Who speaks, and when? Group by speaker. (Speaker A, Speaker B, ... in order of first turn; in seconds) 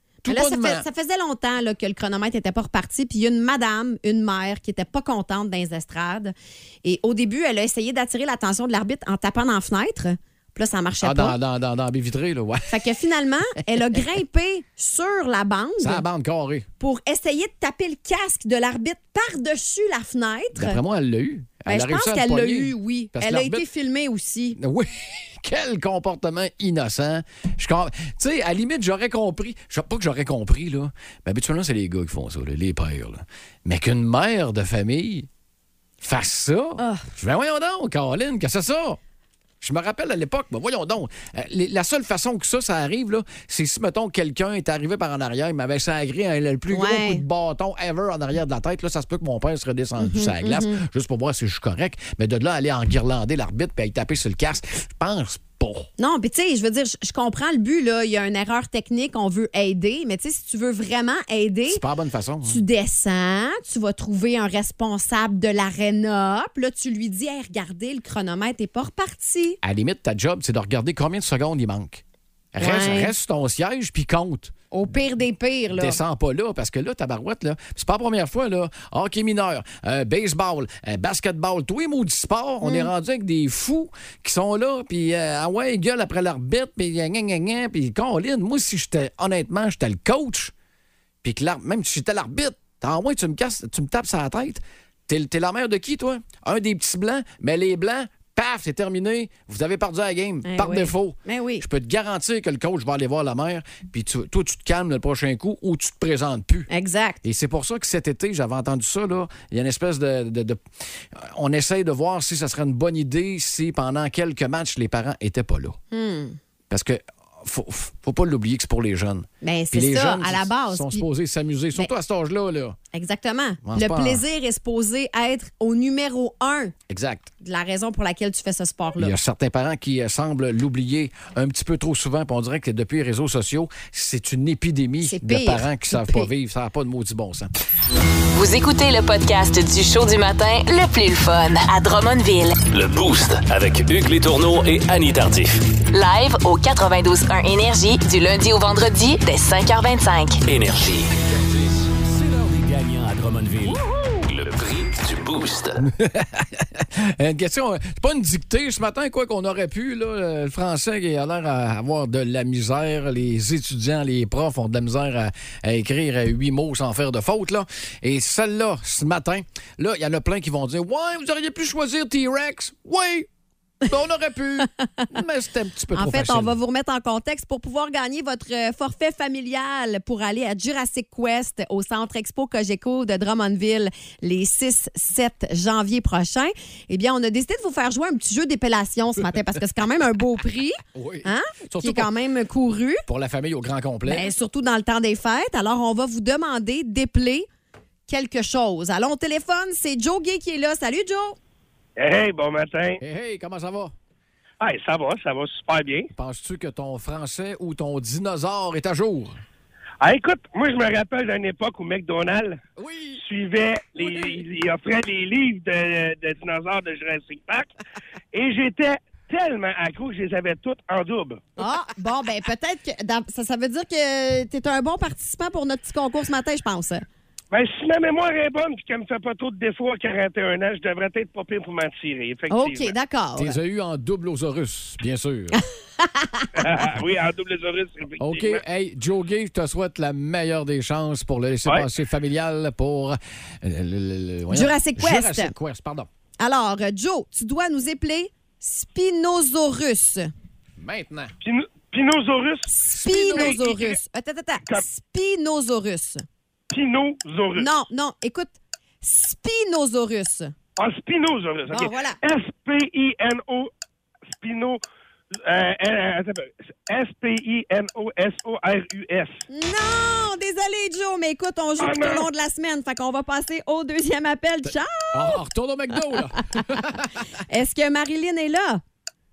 Speaker A: 0.2-0.8, 11.0-12.8, 15.8-16.7, 20.5-23.6, 24.6-35.3, 36.0-39.0, 39.6-55.9, 61.7-62.6, 69.6-72.0, 72.5-74.5, 75.7-90.5, 91.2-106.7, 107.2-110.6, 111.1-115.8, 116.7-122.8, 123.6-124.2, 126.9-127.3, 129.0-137.5, 155.8-173.3, 173.8-176.6, 190.9-192.1, 193.1-194.3, 203.0-203.9, 206.1-209.4, 212.8-213.2, 214.0-214.3, 233.3-235.6, 238.2-246.1, 250.8-251.3, 252.9-253.6, 274.6-277.1
Speaker B: 0.2-11.3, 12.7-16.0, 16.8-20.8, 21.7-24.6, 36.8-37.1, 46.7-47.2, 50.0-50.8, 56.0-61.8, 62.4-69.6, 72.6-73.1, 74.7-76.0, 82.6-82.9, 100.4-101.6, 106.7-107.2, 115.9-116.4, 119.4-121.0, 122.9-126.7, 127.4-129.1, 135.0-136.3, 175.9-193.0, 194.1-197.5, 198.1-201.4, 221.6-227.0, 232.5-233.6, 235.5-236.5, 244.5-245.5, 246.4-250.3, 252.7-256.2, 257.6-260.5, 261.7-262.2, 269.5-275.4, 277.5-278.8
Speaker C: 138.3-142.6, 145.9-150.4
Speaker D: 142.7-145.7, 150.4-155.8
Speaker E: 202.0-203.0, 204.6-206.1, 210.0-212.6, 213.2-217.7, 218.3-221.4, 227.5-232.9, 236.6-238.6, 251.4-254.0, 256.7-257.7, 260.8-263.7, 264.3-264.8, 265.4-269.4, 271.8-272.3